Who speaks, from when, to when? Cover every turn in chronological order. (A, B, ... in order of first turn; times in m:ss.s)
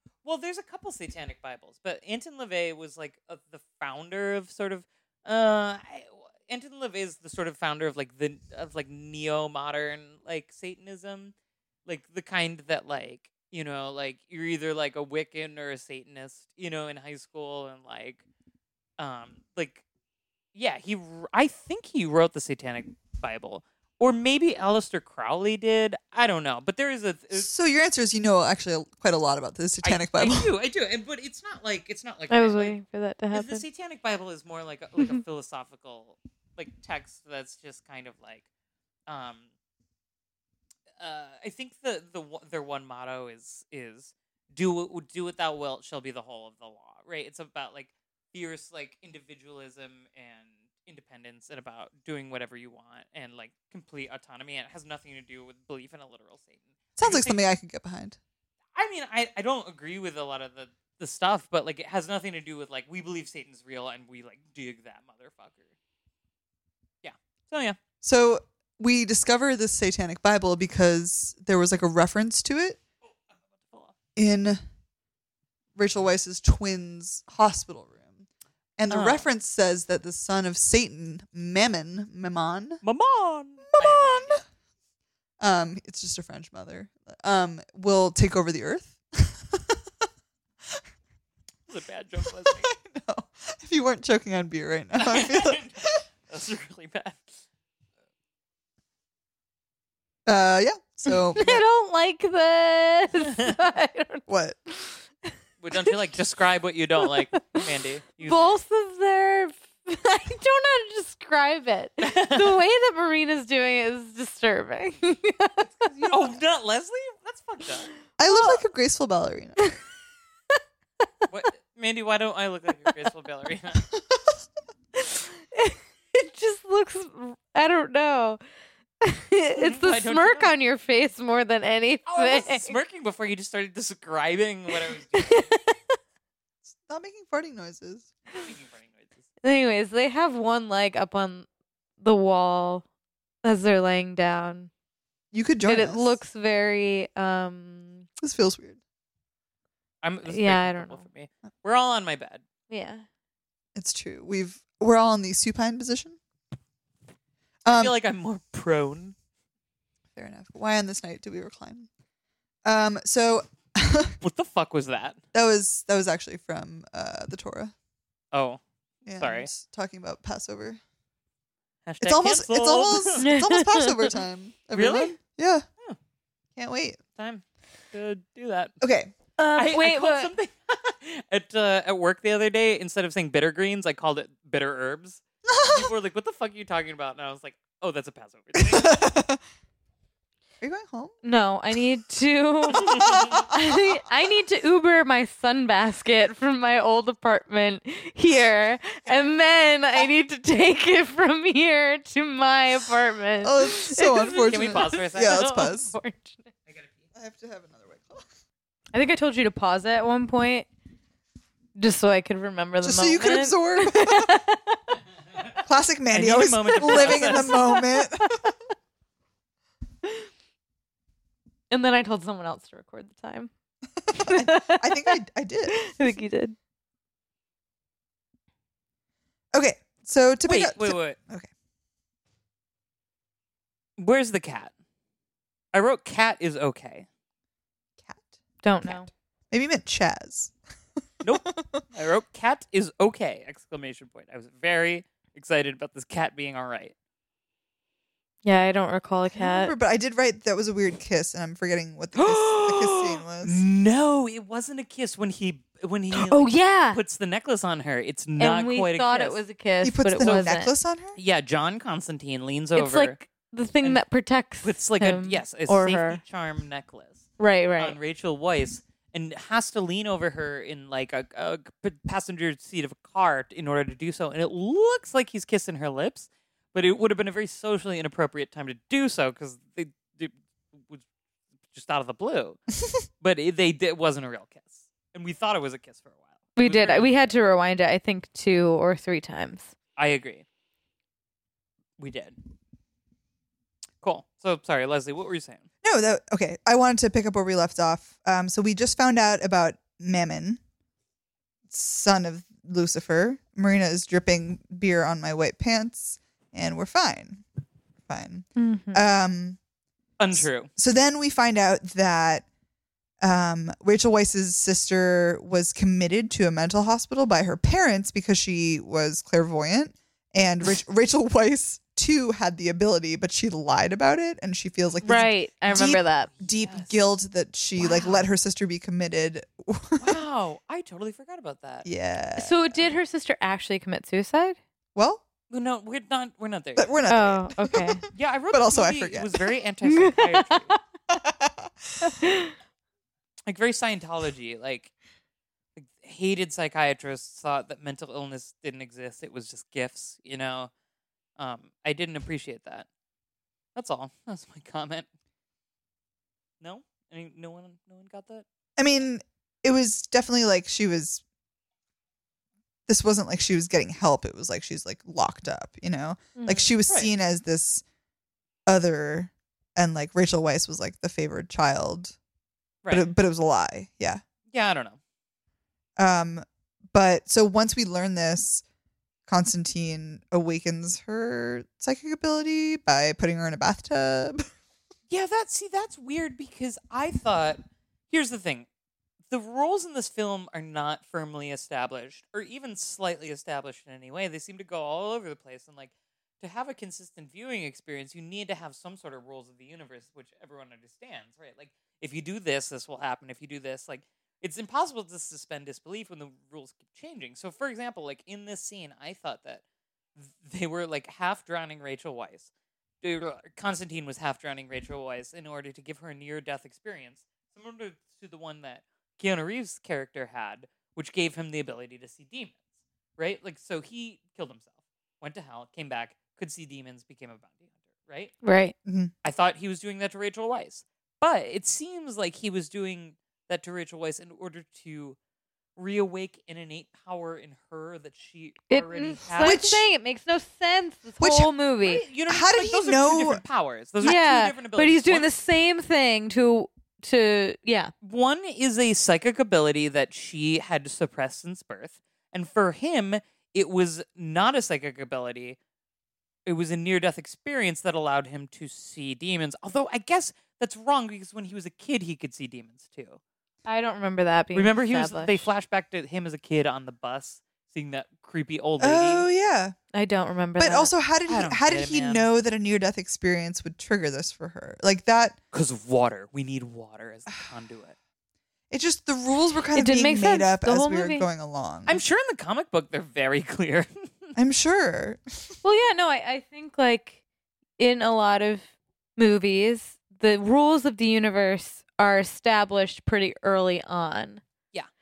0:00.2-0:11.3 A
0:11.9-0:18.2 A
0:19.0-0:19.8 A
0:20.6-0:27.5 A
0:27.3-0:30.5 B
0:29.8-0:32.8 A
0:32.3-0:33.6 C
0:33.3-0:38.5 A
0:39.1-0:39.5 A
0:41.0-0:57.4 A
0:57.0-0:58.2 B
0:58.8-1:05.7 A
1:07.0-1:07.8 A
1:08.0-1:12.8 B
1:13.6-1:13.9 A
1:14.2-1:14.6 B
1:15.8-1:18.3 B
1:18.8-1:22.8 B
1:18.9-1:19.3 A
1:22.8-1:24.4 A
1:23.7-1:24.4 B
1:25.4-1:29.8 B
1:31.7-1:32.7 A
1:32.3-1:36.0 B
1:35.0-1:35.8 A
1:36.3-1:37.3 A
1:40.3-1:41.6 B
1:41.4-1:44.2 C
1:44.3-1:44.6 B
1:45.6-1:48.6 A
1:48.2-1:56.2 C
1:52.0-1:52.6 A
1:56.1-1:57.9 A
1:58.2-1:59.7 B
1:58.2-1:58.6 C
2:01.3-2:03.9 A
2:05.0-2:08.4 C
2:09.0-2:12.8 C
2:09.6-2:10.5 A
2:12.1-2:15.5 A
2:15.2-2:15.7 C
2:16.6-2:18.1 B
2:18.3-2:19.2 A
2:19.4-2:21.5 C
2:22.0-2:22.8 C
2:23.4-2:24.7 C
2:25.3-2:26.2 B
2:25.7-2:28.1 C
2:28.2-2:28.8 B
2:30.0-2:32.4 A
2:30.3-2:31.0 C
2:32.7-2:33.0 C
2:33.8-2:36.2 B
2:37.6-2:38.0 B
2:37.7-2:39.2 A
2:40.2-2:41.9 B
2:42.6-2:44.2 B
2:44.2-2:45.2 A
2:45.3-2:47.7 B
2:48.3-2:48.6 A
2:49.0-2:50.8 B
2:49.2-2:49.5 A
2:51.9-2:53.3 A
2:52.0-2:55.7 B
2:53.2-2:54.1 C
2:54.7-2:55.2 A
2:56.6-2:57.0 B
2:57.2-2:58.8 A
2:58.8-2:59.1 B
2:59.4-3:00.3 C
2:59.5-3:09.0 A
3:05.5-3:05.9 B
3:08.6-3:09.4 B
3:10.6-3:11.2 B
3:11.2-3:26.5 C
3:12.7-3:13.8 B
3:12.9-3:13.3 A
3:19.1-3:19.3 A
3:23.4-3:25.9 B
3:24.5-3:25.6 A
3:26.7-3:27.0 A
3:27.1-3:28.3 B
3:28.9-3:30.7 C
3:31.8-3:35.0 C
3:32.8-3:34.4 B
3:35.6-3:38.4 B
3:36.1-3:37.6 A
3:36.8-3:38.5 C
3:41.7-3:43.5 C
3:44.0-3:45.9 B
3:44.1-3:46.6 C
3:49.5-3:51.5 B
3:50.4-3:51.2 A
3:54.0-3:54.7 A
3:55.7-3:57.1 A
3:58.0-4:00.5 B
3:58.6-3:59.1 C
4:01.2-4:06.9 A
4:01.3-4:01.8 B
4:08.4-4:09.7 C
4:09.3-4:13.6 B
4:12.2-4:19.4 A
4:16.1-4:17.0 C
4:18.4-4:20.7 C
4:19.8-4:21.2 B
4:21.2-4:23.2 A
4:22.8-4:26.2 C
4:24.6-4:27.2 A
4:27.4-4:28.0 C
4:27.8-4:41.0 A
4:41.7-4:42.6 A
4:43.2-4:47.1 A
4:46.6-4:49.7 C
4:50.0-4:50.4 A
4:52.0-4:52.4 A
4:54.0-4:55.6 A
4:55.8-5:00.6 B
5:01.7-5:07.4 B
5:08.1-5:09.6 B
5:08.6-5:09.0 C
5:10.2-5:10.7 A
5:10.3-5:12.5 B
5:13.2-5:30.1 B
5:25.0-5:26.3 C
5:25.7-5:26.9 A
5:27.8-5:28.1 A
5:30.0-5:31.9 A
5:31.8-5:32.8 B
5:32.4-5:34.6 C
5:35.0-5:35.2 B
5:35.5-5:37.0 A
5:36.8-5:39.3 B
5:37.1-5:38.0 C
5:38.1-5:40.7 A
5:39.8-5:40.8 C
5:41.1-5:42.1 B
5:42.0-5:42.5 C
5:43.5-5:44.9 A
5:45.8-5:50.7 A
5:51.4-5:52.9 A
5:53.8-5:55.1 A
5:56.6-5:58.4 A
5:58.8-6:01.2 B
6:02.9-6:07.8 B
6:06.4-6:06.7 C
6:08.7-6:12.2 B
6:12.8-6:13.1 A
6:12.9-6:14.2 B
6:14.5-6:15.0 A
6:16.0-6:18.6 B
6:19.3-6:24.5 B
6:25.1-6:28.7 A
6:29.3-6:49.6 A
6:50.2-6:52.5 A
6:53.0-7:02.6 A
7:03.2-7:08.3 A
7:08.4-7:08.7 C
7:08.8-7:09.1 B
7:09.2-7:15.2 A
7:15.8-7:19.7 A
7:18.7-7:22.0 C
7:19.4-7:19.8 B
7:21.2-7:21.5 B
7:21.8-7:25.3 A
7:22.3-7:23.4 B
7:24.0-7:27.9 C
7:28.0-7:35.6 A
7:36.5-7:43.2 A
7:43.7-7:45.4 C
7:44.5-7:49.3 A
7:48.8-7:49.8 B
7:49.9-7:50.9 C
7:50.6-7:55.4 B
7:51.3-7:52.3 A
7:55.5-7:58.0 A
7:58.7-8:02.0 B
7:59.8-8:01.3 C
8:01.9-8:04.3 A
8:04.4-8:05.6 B
8:05.6-8:07.2 C
8:07.8-8:14.4 C